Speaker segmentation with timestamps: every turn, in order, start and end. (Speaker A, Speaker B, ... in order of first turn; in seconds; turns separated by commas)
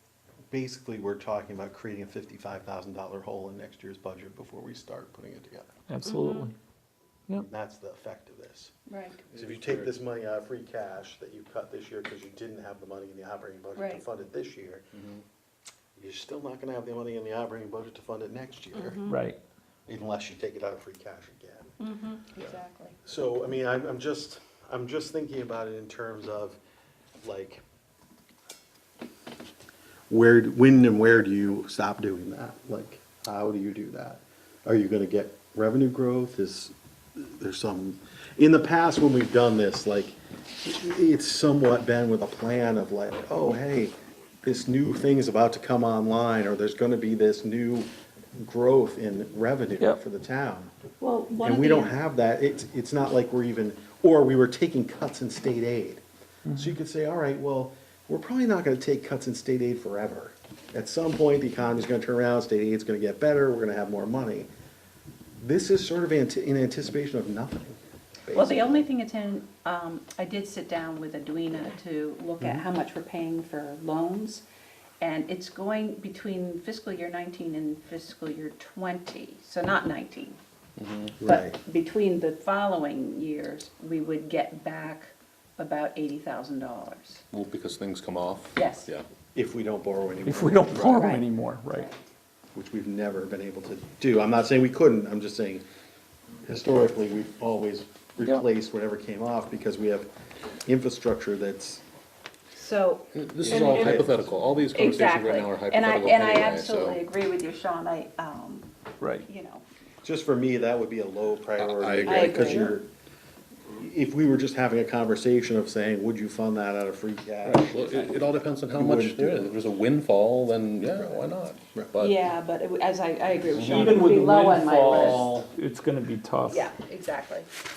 Speaker A: 0.5-5.7, Speaker B: 5.9-6.5, Speaker C: 6.1-6.5, Speaker A: 7.4-8.7, Speaker C: 8.9-9.2, Speaker D: 9.3-9.9, Speaker A: 9.3-14.8, Speaker C: 13.8-14.0, Speaker A: 15.9-19.0, Speaker C: 18.7-19.2, Speaker B: 19.1-19.4, Speaker A: 19.9-21.7, Speaker C: 21.8-22.9, Speaker A: 23.0-26.6, Speaker A: 27.2-27.6, Speaker A: 30.1-47.9, Speaker A: 48.4-50.7, Speaker C: 51.0-52.0, Speaker A: 51.4-64.5, Speaker B: 56.5-56.8, Speaker A: 65.4-68.9, Speaker C: 68.3-74.4, Speaker C: 75.0-80.4, Speaker D: 80.8-81.2, Speaker A: 81.2-81.5, Speaker C: 81.2-87.2, Speaker D: 87.3-89.0, Speaker C: 88.5-88.9, Speaker A: 89.3-91.0, Speaker B: 90.2-91.9, Speaker C: 90.9-91.2, Speaker A: 92.5-95.6, Speaker A: 96.5-100.1, Speaker A: 100.6-101.8, Speaker C: 102.5-104.1, Speaker D: 103.1-107.0, Speaker A: 103.4-104.2, Speaker C: 104.7-109.6, Speaker A: 110.0-112.9, Speaker D: 111.6-112.7, Speaker C: 112.0-112.8, Speaker A: 113.7-118.1, Speaker D: 117.4-122.3, Speaker A: 118.7-119.5, Speaker C: 122.0-125.4, Speaker B: 123.6-126.7, Speaker C: 126.5-127.5